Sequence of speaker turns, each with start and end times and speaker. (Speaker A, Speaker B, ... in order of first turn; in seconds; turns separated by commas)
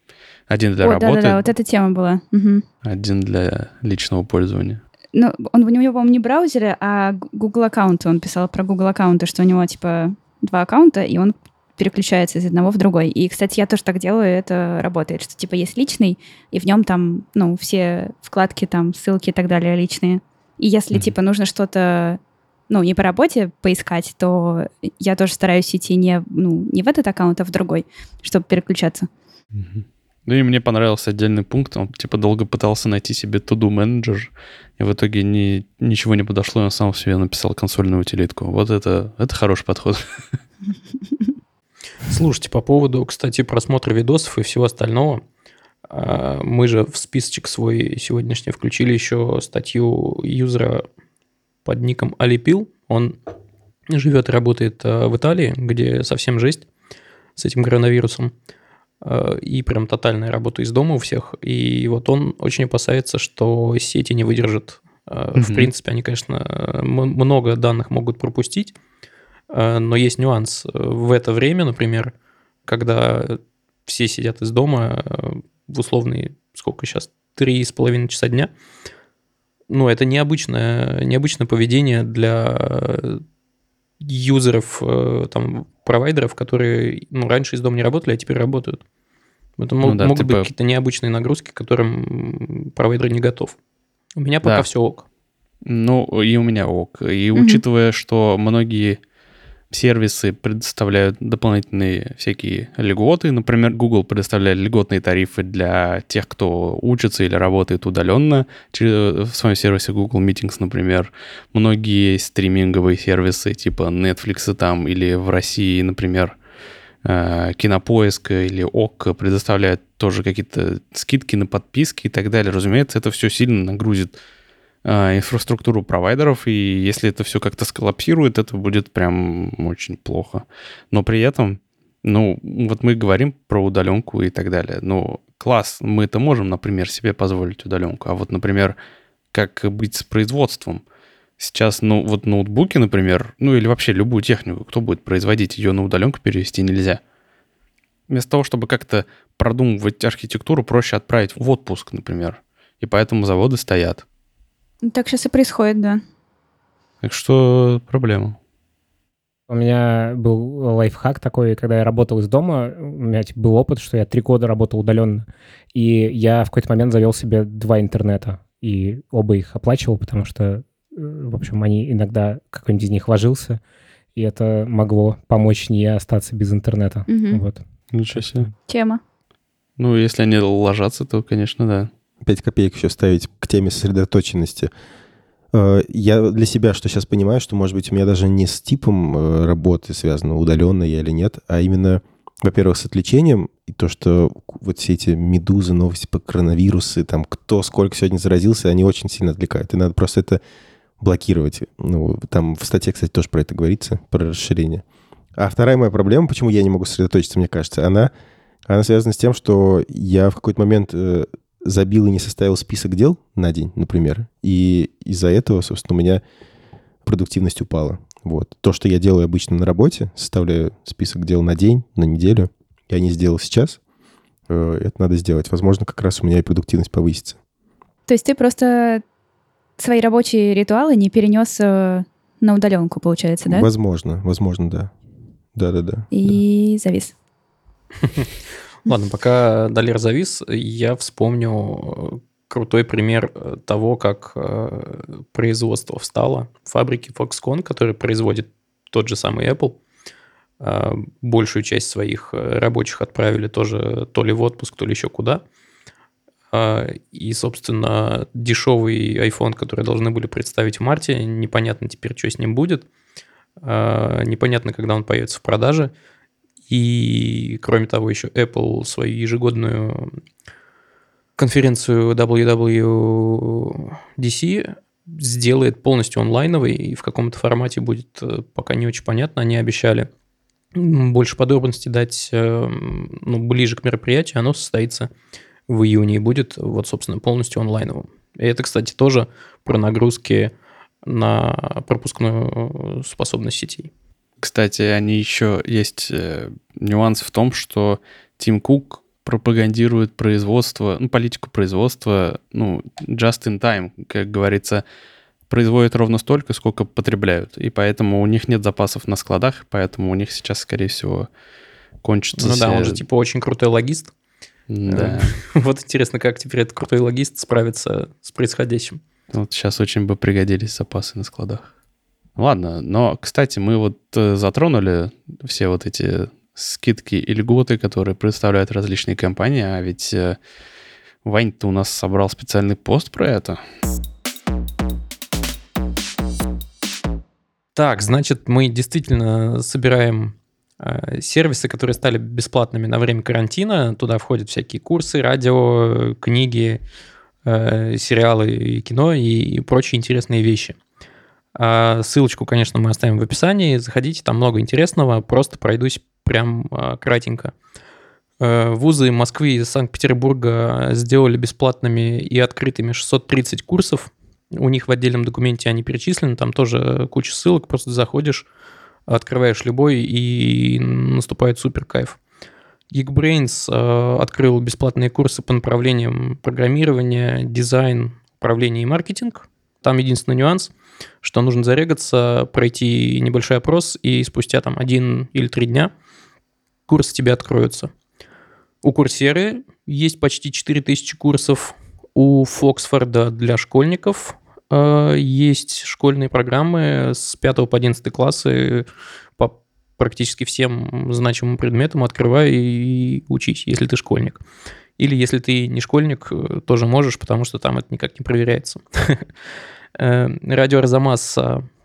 Speaker A: 0.5-1.5, Speaker B: 0.8-2.6, Speaker A: 2.8-4.8, Speaker B: 5.1-29.1, Speaker A: 29.5-40.4, Speaker C: 42.1-45.2, Speaker C: 45.9-50.9, Speaker C: 51.6-53.2, Speaker C: 53.9-56.7, Speaker C: 57.4-58.3, Speaker C: 59.0-68.8, Speaker A: 65.4-65.7, Speaker C: 69.5-72.1, Speaker C: 72.7-78.5, Speaker C: 79.7-83.2, Speaker C: 84.0-88.8, Speaker C: 89.6-93.6, Speaker A: 89.8-90.5, Speaker C: 94.2-95.0, Speaker A: 95.7-99.0, Speaker B: 97.3-97.6, Speaker A: 99.7-116.4, Speaker A: 117.0-124.2, Speaker A: 124.8-138.8, Speaker A: 139.3-140.8, Speaker A: 141.4-147.0, Speaker A: 148.1-154.0, Speaker B: 154.8-156.0, Speaker A: 157.0-158.4, Speaker D: 159.5-173.6, Speaker D: 174.2-177.6, Speaker B: 177.1-177.4, Speaker A: 177.9-178.5, Speaker D: 178.1-178.5, Speaker B: 178.7-179.0, Speaker A: 179.8-181.9, Speaker E: 182.2-184.7, Speaker E: 185.5-200.4, Speaker E: 201.0-204.8, Speaker E: 205.4-208.1, Speaker E: 208.7-216.2, Speaker E: 217.0-223.8, Speaker E: 224.5-227.4, Speaker B: 228.1-229.0, Speaker B: 229.8-233.7, Speaker E: 233.5-234.9, Speaker E: 235.6-236.1, Speaker B: 236.1-237.1, Speaker C: 238.0-238.3, Speaker C: 238.9-249.8, Speaker C: 250.6-255.4, Speaker C: 256.5-262.9, Speaker C: 263.6-265.9, Speaker C: 266.7-270.2, Speaker C: 271.4-280.1, Speaker C: 280.8-285.1, Speaker C: 285.7-290.5, Speaker C: 291.1-293.9, Speaker A: 294.4-304.8, Speaker A: 305.5-311.3, Speaker A: 312.0-313.0, Speaker C: 312.4-314.1, Speaker A: 314.7-315.4, Speaker C: 314.9-319.0, Speaker A: 319.3-321.7, Speaker A: 322.4-330.4, Speaker A: 331.2-333.6, Speaker C: 337.8-346.8, Speaker C: 347.4-350.8, Speaker C: 351.6-357.5, Speaker C: 358.4-368.5, Speaker C: 369.1-372.2, Speaker C: 372.9-385.9, Speaker C: 386.9-387.9, Speaker C: 388.8-398.9, Speaker C: 399.4-404.4, Speaker C: 405.0-409.3, Speaker C: 410.0-411.7